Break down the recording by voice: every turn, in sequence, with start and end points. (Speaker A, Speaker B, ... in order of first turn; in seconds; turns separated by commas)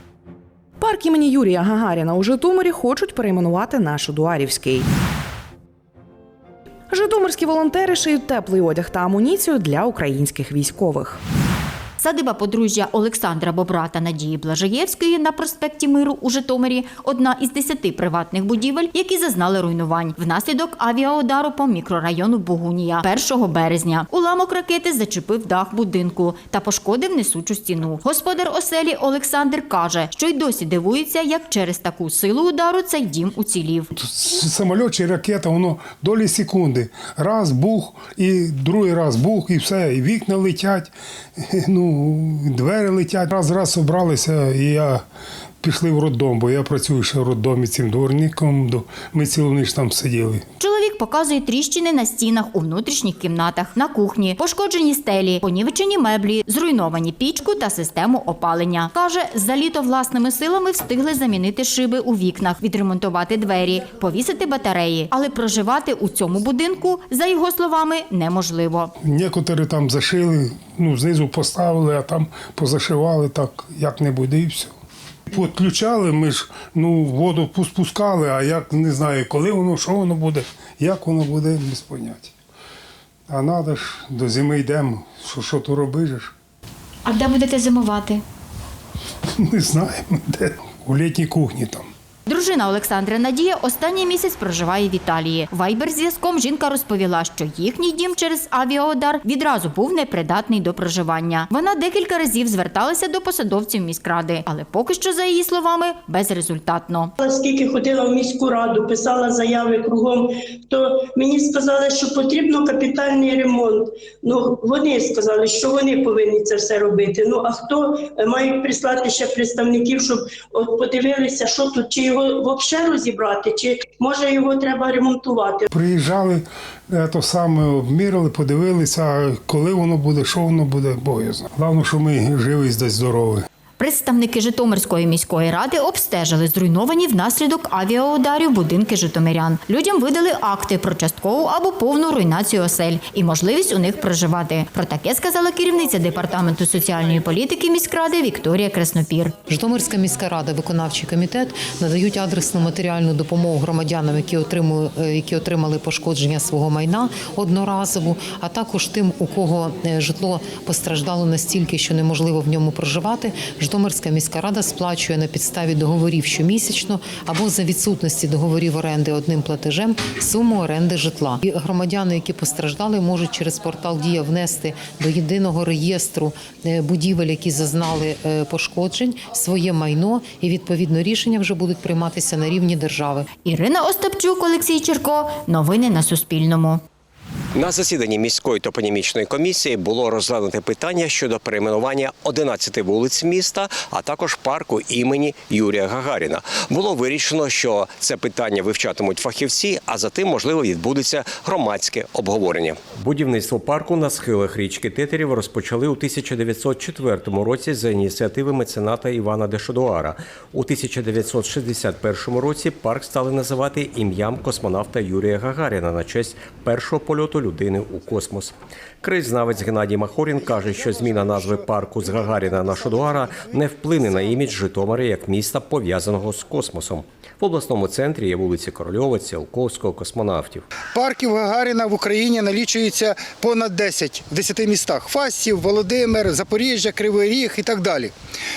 Speaker A: 0.8-4.8, Speaker A: 6.9-11.2, Speaker B: 12.0-33.9, Speaker C: 34.0-40.9, Speaker D: 34.2-40.7, Speaker C: 41.8-44.9, Speaker D: 42.6-45.0, Speaker C: 45.6-49.7, Speaker D: 45.9-50.4, Speaker B: 50.6-68.9, Speaker C: 69.1-70.2, Speaker D: 69.2-74.7, Speaker C: 71.0-73.7, Speaker D: 75.3-82.0, Speaker C: 75.4-76.4, Speaker C: 77.1-82.3, Speaker C: 83.3-86.2, Speaker D: 83.3-83.6, Speaker D: 84.2-86.0, Speaker B: 87.0-88.2, Speaker D: 90.9-91.9, Speaker C: 91.0-91.7, Speaker B: 92.3-107.1, Speaker E: 107.2-125.7, Speaker C: 125.8-126.2, Speaker C: 126.9-133.2, Speaker D: 127.3-128.9, Speaker D: 129.7-133.4, Speaker B: 133.8-149.3, Speaker C: 149.4-183.3, Speaker B: 183.4-186.8, Speaker F: 187.6-230.6, Speaker G: 230.9-238.1